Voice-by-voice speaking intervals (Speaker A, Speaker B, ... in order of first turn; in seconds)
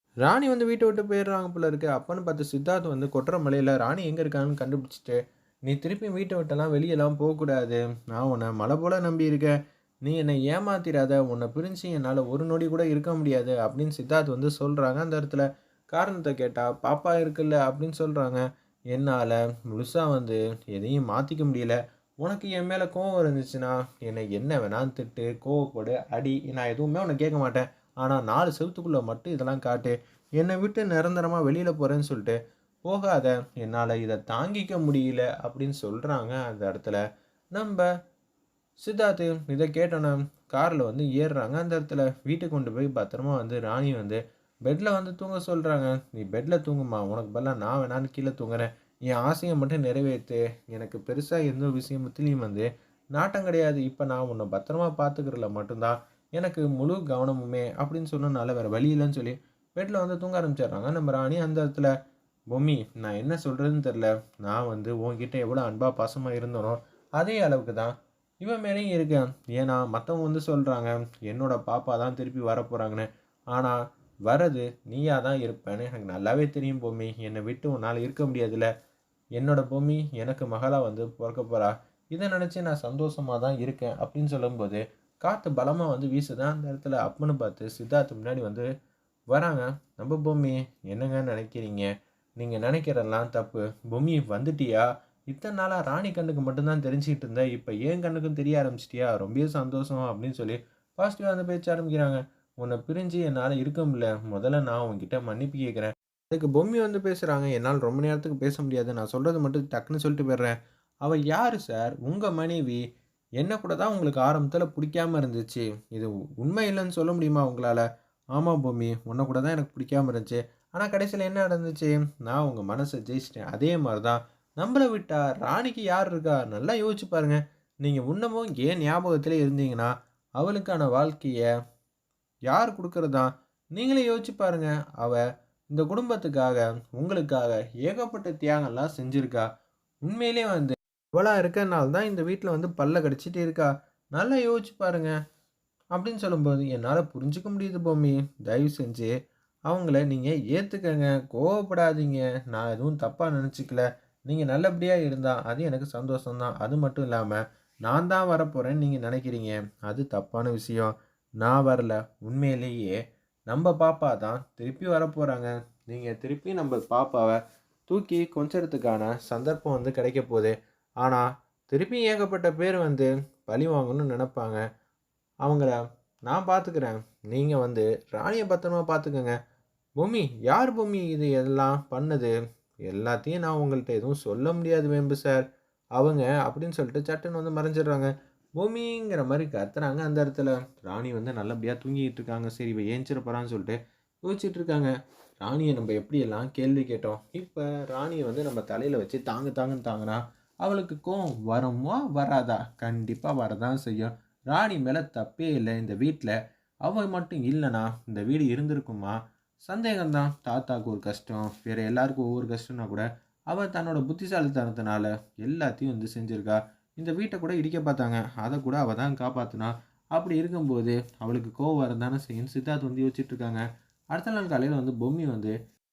Speaker A: 0.2-37.0, 37.5-37.9, 38.8-61.9, 62.5-73.8, 74.3-78.7, 79.4-88.7, 89.3-91.9, 92.4-112.8, 113.4-117.8, 118.3-131.5, 132.5-135.2, 135.7-139.5, 140.1-145.1, 145.9-149.1, 149.7-163.0, 163.5-174.6, 175.4-175.8, 176.3-179.3, 180.0-182.3, 182.9-185.4, 186.0-225.6